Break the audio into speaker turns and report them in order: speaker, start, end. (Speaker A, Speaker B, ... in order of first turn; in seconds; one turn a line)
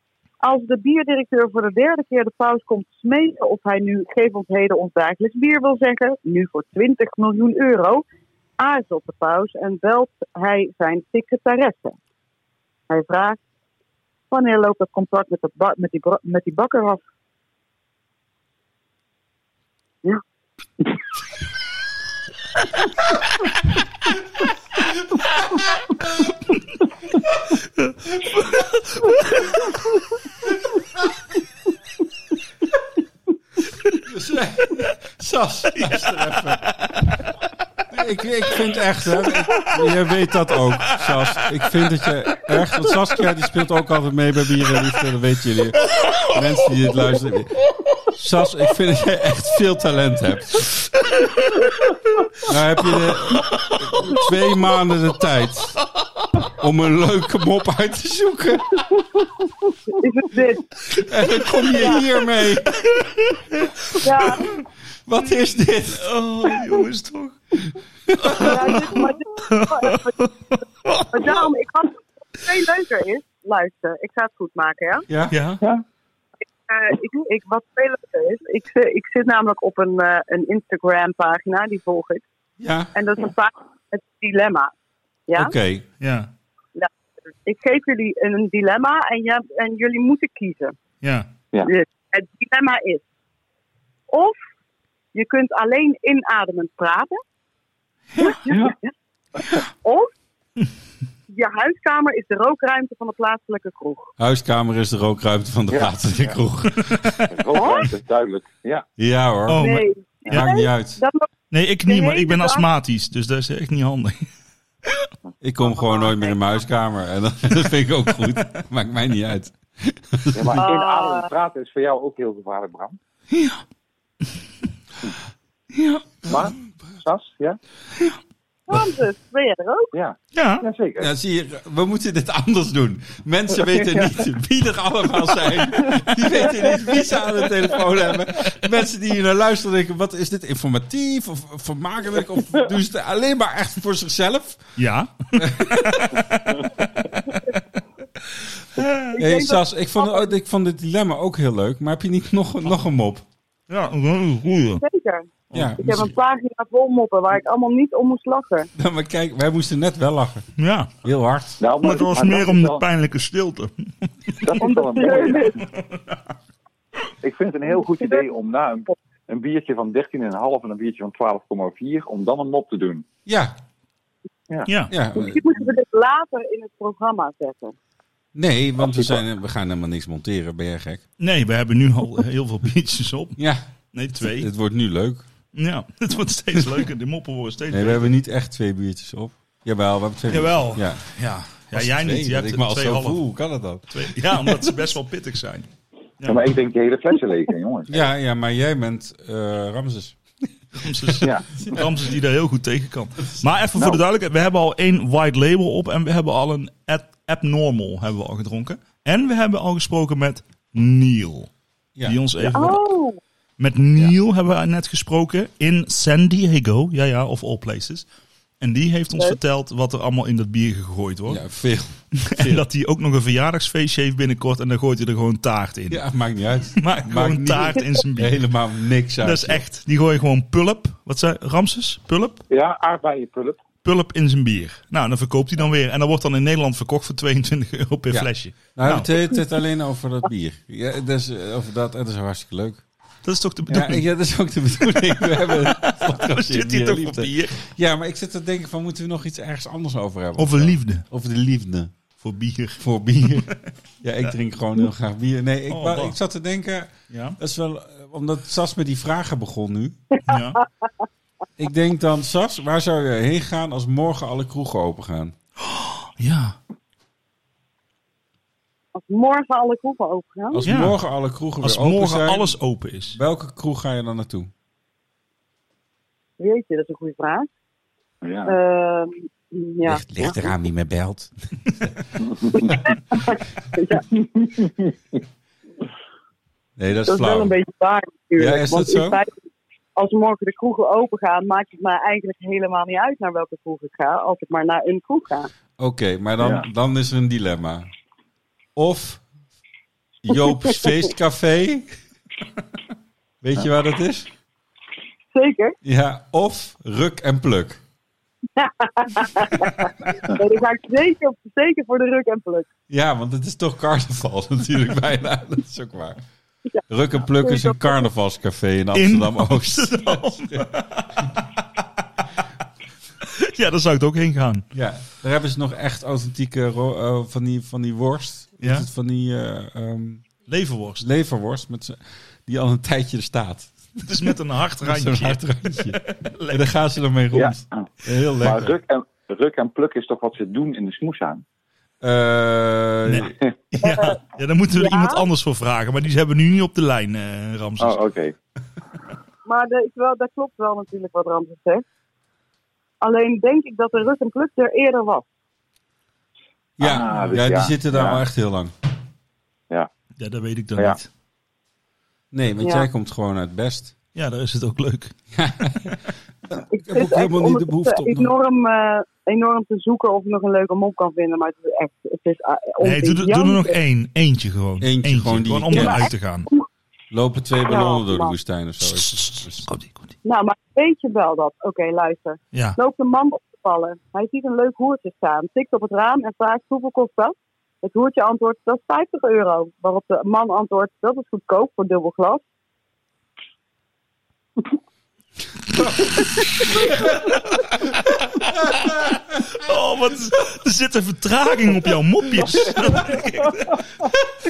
Speaker A: 0.4-8.0
Speaker A: 8.6-12.0
Speaker A: 12.9-13.4
Speaker A: 14.3-17.0
Speaker B: 27.8-29.5
Speaker C: 34.0-36.6
Speaker B: 35.7-37.1
Speaker C: 37.9-50.8
Speaker B: 45.9-46.4
Speaker C: 52.5-55.8
Speaker B: 53.0-53.8
Speaker C: 56.5-58.9
Speaker A: 59.9-60.8
Speaker C: 61.0-62.8
Speaker A: 61.8-62.1
Speaker B: 62.7-64.5
Speaker A: 64.0-64.5
Speaker C: 64.3-64.5
Speaker C: 65.0-66.1
Speaker B: 66.0-67.4
Speaker C: 68.1-68.9
Speaker B: 68.2-71.5
Speaker A: 68.3-70.2
Speaker A: 71.1-75.0
Speaker C: 75.1-75.3
Speaker B: 75.3-75.6
Speaker A: 76.7-82.2
Speaker C: 82.6-82.9
Speaker A: 82.9-84.7
Speaker C: 85.3-85.8
Speaker B: 86.0-86.3
Speaker A: 87.4-90.7
Speaker B: 91.0-91.3
Speaker A: 91.6-93.0
Speaker A: 94.1-94.4
Speaker A: 95.1-97.2
Speaker A: 98.2-98.9
Speaker D: 98.5-98.7
Speaker A: 99.5-100.1
Speaker A: 101.3-104.1
Speaker C: 104.2-107.0
Speaker D: 105.7-106.4
Speaker B: 106.8-107.3
Speaker D: 107.3-108.8
Speaker A: 107.5-107.9
Speaker C: 109.0-109.6
Speaker B: 109.5-109.9
Speaker A: 109.6-111.3
Speaker C: 110.3-111.0
Speaker B: 111.5-114.3
Speaker A: 111.9-112.7
Speaker C: 115.4-120.6
Speaker A: 115.7-116.3
Speaker D: 120.3-123.0
Speaker A: 120.6-121.3
Speaker B: 123.3-123.6
Speaker B: 125.7-126.4
Speaker D: 126.2-127.6
Speaker A: 128.7-129.9
Speaker D: 129.9-131.1
Speaker B: 130.3-130.6
Speaker C: 131.0-144.7
Speaker D: 133.7-134.1
Speaker B: 144.8-146.8
Speaker C: 145.4-146.2
Speaker B: 148.7-149.2
Speaker A: 149.1-150.3
Speaker C: 149.2-153.2
Speaker B: 153.7-154.8
Speaker A: 154.8-158.7
Speaker C: 155.5-156.1
Speaker C: 158.8-160.5
Speaker B: 160.6-160.9
Speaker C: 161.0-161.6
Speaker D: 161.6-162.8
Speaker B: 161.8-164.4
Speaker D: 164.4-165.5
Speaker A: 164.6-165.6
Speaker B: 165.7-166.2
Speaker D: 167.2-173.0
Speaker C: 173.2-173.5
Speaker B: 174.7-174.9
Speaker C: 174.9-175.4
Speaker A: 175.1-177.7
Speaker C: 178.3-181.0
Speaker D: 178.8-179.2
Speaker B: 181.2-183.4
Speaker C: 183.4-183.6
Speaker B: 183.9-184.5
Speaker C: 184.2-185.2
Speaker B: 185.5-188.1
Speaker C: 187.7-191.1
Speaker B: 190.3-193.2
Speaker C: 191.7-194.7
Speaker B: 193.9-195.7
Speaker D: 196.2-198.0
Speaker C: 197.9-200.5
Speaker B: 200.8-211.5
Speaker C: 201.0-201.9
Speaker C: 211.9-212.4
Speaker B: 212.0-212.8
Speaker A: 212.5-213.2
Speaker B: 213.6-218.1
Speaker B: 218.6-221.4
Speaker C: 221.3-222.6
Speaker B: 222.2-226.0
Speaker C: 225.9-229.6
Speaker B: 226.8-228.4
Speaker B: 229.2-232.4
Speaker D: 232.5-233.6
Speaker B: 233.8-239.1
Speaker C: 238.1-242.8
Speaker B: 243.2-244.1
Speaker C: 243.7-251.9
Speaker B: 244.9-247.6
Speaker B: 250.3-251.0
Speaker B: 252.2-253.6
Speaker C: 252.8-253.5
Speaker C: 254.0-260.0
Speaker B: 255.7-256.1
Speaker B: 257.1-257.4
Speaker B: 260.2-260.6
Speaker C: 261.6-265.3
Speaker B: 265.6-266.6
Speaker A: 268.9-270.7
Speaker C: 270.5-272.6
Speaker B: 270.6-271.0
Speaker B: 271.6-273.2
Speaker C: 273.1-274.5
Speaker A: 276.4-277.5
Speaker D: 278.2-278.6
Speaker A: 278.4-280.4
Speaker C: 279.8-281.9
Speaker D: 282.2-282.6
Speaker C: 282.5-282.9
Speaker A: 282.5-284.0
Speaker D: 284.4-284.9
Speaker C: 286.8-287.5
Speaker A: 287.1-289.3
Speaker C: 288.4-289.2
Speaker A: 289.9-295.5
Speaker C: 295.8-297.9
Speaker D: 296.4-296.6
Speaker C: 298.8-299.2
Speaker C: 300.2-301.9
Speaker C: 303.4-304.3
Speaker A: 305.3-305.8
Speaker C: 305.8-307.8
Speaker A: 308.6-312.7
Speaker C: 312.9-316.2
Speaker C: 316.9-320.6
Speaker A: 317.3-318.0
Speaker B: 318.9-321.5
Speaker B: 323.2-324.6
Speaker C: 324.7-330.2
Speaker B: 328.6-328.9
Speaker B: 330.5-331.0
Speaker C: 331.0-336.0
Speaker B: 334.0-336.7
Speaker C: 336.5-338.8
Speaker D: 337.3-337.9
Speaker D: 338.4-341.4
Speaker C: 342.0-343.4
Speaker B: 343.1-348.0
Speaker A: 343.8-344.2
Speaker A: 344.7-345.2
Speaker D: 347.8-348.3
Speaker A: 349.4-351.8
Speaker A: 353.0-355.2
Speaker C: 356.8-358.7
Speaker D: 356.8-358.2
Speaker B: 357.1-357.4
Speaker B: 360.2-361.1
Speaker C: 362.3-363.9
Speaker B: 364.1-365.1
Speaker C: 365.3-366.0
Speaker C: 366.5-368.3
Speaker A: 366.7-373.8
Speaker B: 372.8-376.5
Speaker C: 374.8-376.1
Speaker A: 375.7-376.6
Speaker C: 377.1-379.7
Speaker A: 377.6-378.3
Speaker B: 378.9-380.1
Speaker A: 380.2-392.4
Speaker C: 395.7-397.3
Speaker B: 398.0-398.9
Speaker C: 398.4-399.5
Speaker B: 399.5-404.1
Speaker C: 402.8-403.1